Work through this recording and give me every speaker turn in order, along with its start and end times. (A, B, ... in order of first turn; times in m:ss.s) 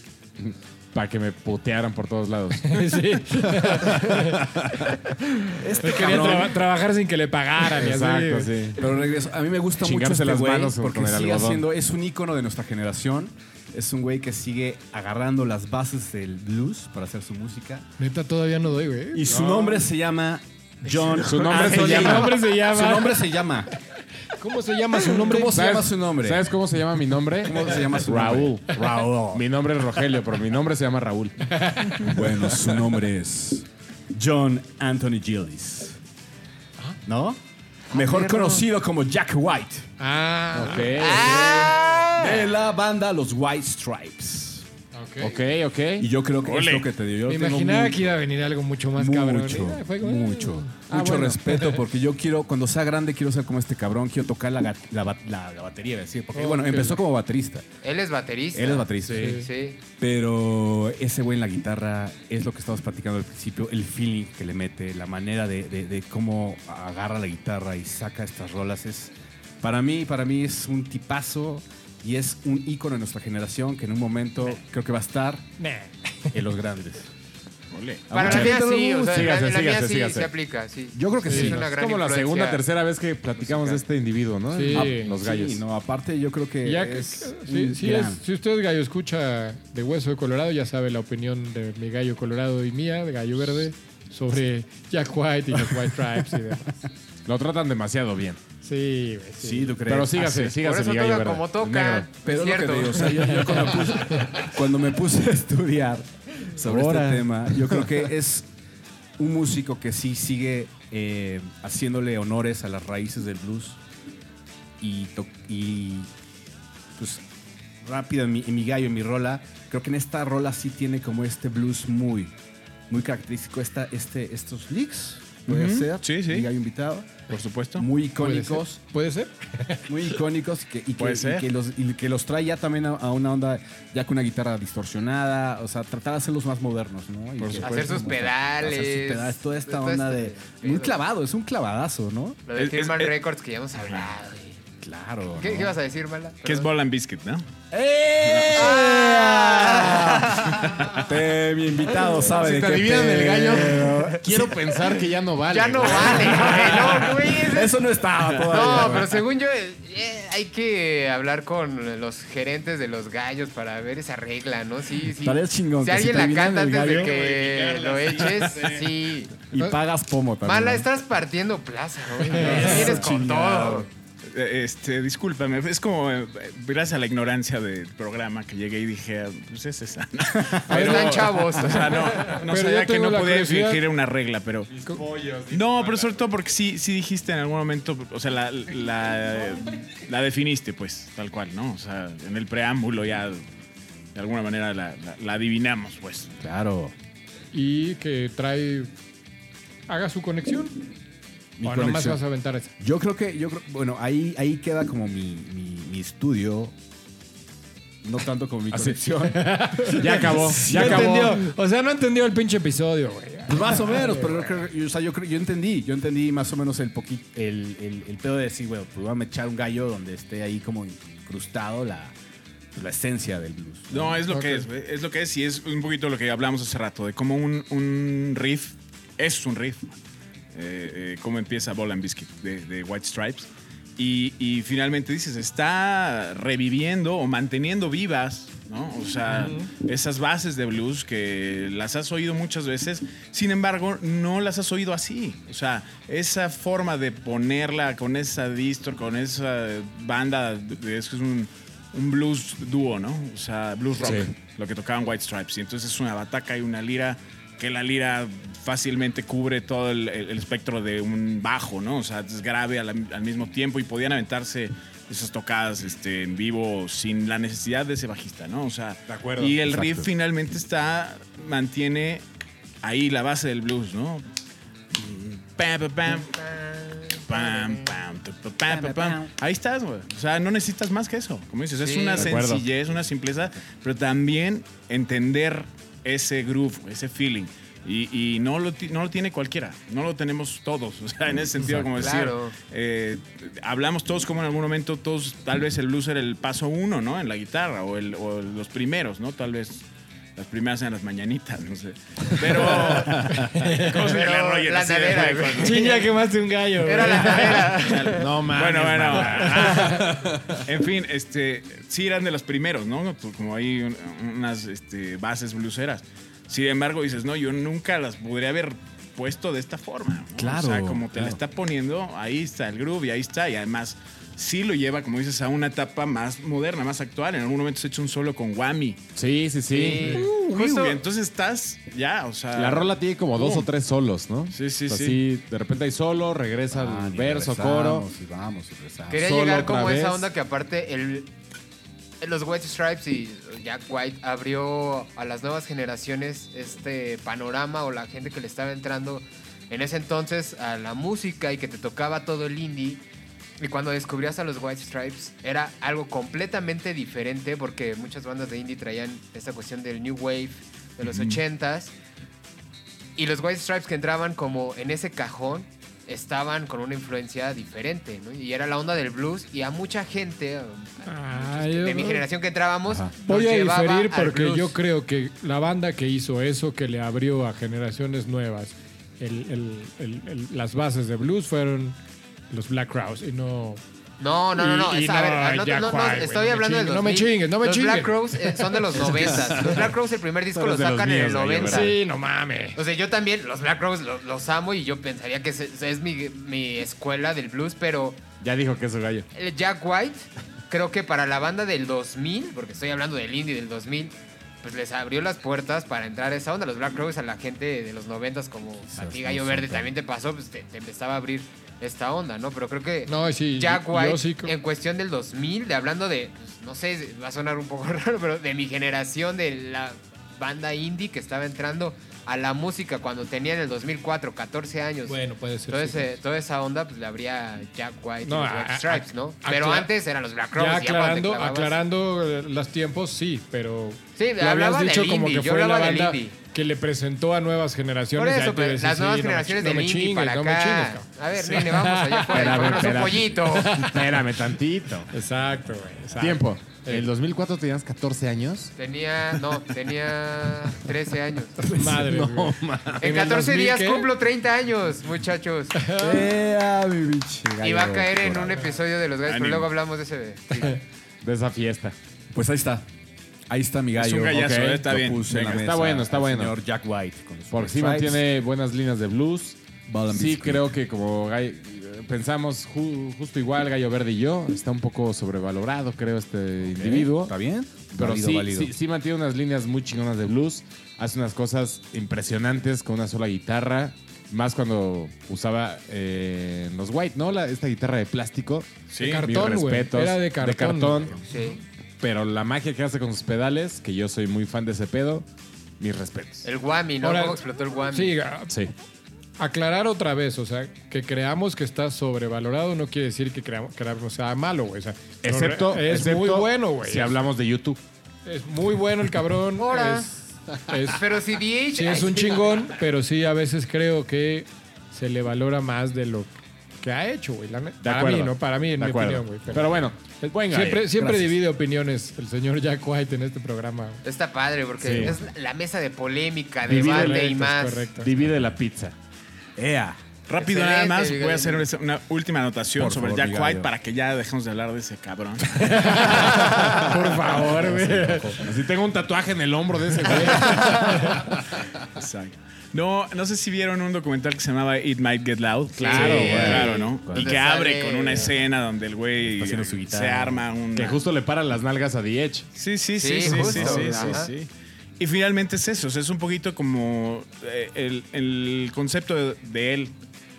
0:00.4-0:02.8 A
0:02.6-0:08.8 B
0:03.6-0:04.8 A
0:05.6-0:06.6 C
0:06.0-0:06.5 A
0:07.6-0:08.8 A
0:08.8-0:17.9 C
0:09.8-0:11.7 A
0:18.0-0:19.5 B
0:19.1-0:23.7 C
0:19.3-0:19.8 A
0:20.9-0:25.5 B
0:21.2-0:22.5 A
0:25.0-0:26.5 C
0:25.5-0:31.6 A
0:27.4-0:29.5 C
0:31.5-0:32.8 B
0:32.0-0:36.0 C
0:37.1-0:39.9 C
0:37.9-0:38.6 D
0:38.2-0:38.5 B
0:40.0-0:41.8 B
0:40.5-0:41.7 A
0:40.9-0:42.5 D
0:42.2-0:44.7 C
0:44.9-0:45.4 B
0:45.2-0:46.1 A
0:46.0-0:48.2 C
0:46.4-0:46.9 E
0:47.3-0:50.8 B
0:49.0-0:57.6 C
0:50.9-0:51.8 A
0:56.3-0:57.0 B
0:57.8-0:59.8 D
0:58.5-0:59.4 C
0:59.0-0:59.4 A
0:59.2-0:59.5 B
1:00.0-1:15.5 C
1:15.6-1:16.4 B
1:16.3-1:17.1 C
1:17.7-1:18.1 E
1:18.1-1:19.3 C
1:18.1-1:22.6 D
1:18.2-1:20.3 A
1:20.9-1:21.6 C
1:21.3-1:21.6 B
1:21.4-1:25.6 A
1:23.4-1:23.8 D
1:24.5-1:25.1 B
1:24.7-1:28.2 C
1:26.6-1:36.7 B
1:35.6-1:35.9 C
1:37.3-1:38.4 A
1:38.6-1:39.8 B
1:39.4-1:40.6 C
1:39.9-1:42.1 A
1:40.6-1:43.6 D
1:41.6-1:48.5 C
1:46.6-1:48.0 A
1:49.2-1:53.8 C
1:54.8-1:56.1 C
1:57.0-1:57.2 C
1:57.8-2:02.3 C
2:02.9-2:07.1 C
2:05.5-2:06.5 E
2:07.3-2:07.9 E
2:07.8-2:08.8 C
2:08.2-2:10.1 B
2:09.9-2:22.4 C
2:11.0-2:11.5 E
2:17.4-2:17.8 E
2:17.6-2:21.0 D
2:22.5-2:24.6 D
2:22.6-2:23.2 E
2:24.8-2:25.8 C
2:25.4-2:26.7 D
2:26.4-2:27.4 E
2:27.7-2:34.6 C
2:28.2-2:28.8 E
2:28.6-2:30.5 D
2:30.6-2:31.0 E
2:32.3-2:36.6 A
2:35.5-2:37.8 D
2:35.9-2:39.2 C
2:38.5-2:49.3 D
2:45.2-2:47.2 C
2:46.9-2:48.9 E
2:49.5-2:50.9 C
2:50.4-2:53.9 D
2:52.2-2:53.0 B
2:52.4-2:53.9 C
2:54.3-3:04.7 E
3:00.4-3:01.3 C
3:00.7-3:02.4 D
3:02.3-3:03.8 B
3:04.7-3:06.3 A
3:05.5-3:13.4 E
3:14.2-3:16.3 E
3:16.4-3:16.9 C
3:17.5-3:18.9 B
3:19.9-3:20.8 B
3:21.6-3:22.2 C
3:21.6-3:22.7 B
3:22.8-3:26.7 C
3:28.0-3:31.3 C
3:28.7-3:29.1 A
3:29.3-3:34.6 B
3:29.9-3:31.4 A
3:33.5-3:42.1 C
3:42.8-3:44.2 C
3:43.9-3:50.0 E
3:44.3-3:44.7 B
3:50.5-4:32.2 E
3:59.3-3:59.7 B
4:14.0-4:14.3 A
4:29.1-4:29.9 A
4:29.7-4:30.0 C
4:32.8-4:34.3 E
4:34.9-4:36.4 E
4:36.2-4:38.0 D
4:37.2-4:59.8 E
4:38.6-4:39.3 C
4:41.8-4:42.3 D
4:42.2-4:42.7 A
4:51.9-4:52.6 D
5:00.4-5:06.1 E
5:02.9-5:03.3 C
5:03.3-5:04.0 B
5:03.9-5:06.1 D
5:05.6-5:08.2 B
5:06.8-5:08.2 D
5:07.3-5:29.0 E
5:08.2-5:10.4 A
5:09.4-5:10.1 B
5:20.4-5:21.4 C
5:29.2-5:30.2 A
5:29.7-5:31.0 D
5:30.2-5:33.7 E
5:32.6-5:38.1 A
5:34.5-5:35.2 E
5:36.7-5:39.3 C
5:39.1-5:41.3 D
5:39.1-5:40.3 A
5:42.2-5:53.0 D
5:53.6-6:01.9 D
6:01.0-6:01.4 E
6:03.2-6:14.8 D
6:11.0-6:12.3 B
6:12.9-6:13.1 C
6:13.2-6:22.0 B
6:22.5-6:23.8 B
6:24.2-6:32.0 D
6:24.5-6:29.7 B
6:29.4-6:29.9 A
6:30.5-6:32.0 A
6:31.6-6:32.8 B
6:32.8-6:38.2 D
6:38.4-6:39.3 A
6:39.3-7:11.8 D
6:48.9-6:49.9 C
6:53.1-6:54.5 B
7:05.1-7:06.1 B
7:08.2-7:09.9 B
7:10.5-7:22.8 B
7:14.2-7:16.4 D
7:18.2-7:23.9 D
7:22.3-7:25.1 A
7:23.5-7:24.2 B
7:25.1-7:27.1 B
7:26.2-7:28.7 A
7:28.8-7:31.6 D
7:31.6-7:34.1 B
7:31.8-7:32.1 C
7:31.8-7:33.2 A
7:33.0-7:35.8 D
7:35.8-7:36.3 B
7:36.0-7:38.6 C
7:37.6-7:40.8 D
7:39.3-7:39.7 E
7:41.2-7:42.0 A
7:42.3-7:42.9 C
7:43.5-7:48.2 C
7:44.0-7:45.7 E
7:44.3-7:46.6 A
7:47.5-7:57.4 A
7:49.9-7:50.7 C
7:56.6-7:58.7 C
7:58.0-8:11.2 A
8:08.9-8:09.3 E
8:09.0-8:11.6 B
8:11.3-8:11.6 D
8:12.0-8:15.3 A
8:15.8-8:16.5 A
8:16.4-8:18.2 D
8:17.0-8:17.4 B
8:17.9-8:18.6 B
8:19.4-8:27.2 B
8:25.2-8:27.8 A
8:28.2-8:31.1 B
8:29.6-8:30.1 D
8:30.9-8:32.6 D
8:31.8-8:39.9 B
8:37.8-8:41.3 A
8:40.4-8:44.0 B
8:44.0-8:47.9 D
8:44.8-8:45.2 A
8:46.7-8:48.2 B
8:46.7-8:47.1 A
8:48.0-8:49.0 A
8:49.6-8:50.0 C
8:50.3-8:55.7 E
8:50.3-8:51.7 D
8:52.8-8:53.7 C
8:55.7-9:01.7 A
8:55.8-8:57.2 B
8:56.6-8:58.4 C
9:01.8-9:11.0 E
9:05.8-9:08.4 D
9:05.8-9:06.7 A
9:05.9-9:07.4 C
9:09.3-9:10.4 C
9:10.7-9:12.5 A
9:12.6-9:19.9 E
9:13.0-9:14.3 D
9:13.4-9:13.9 A
9:13.6-9:14.2 C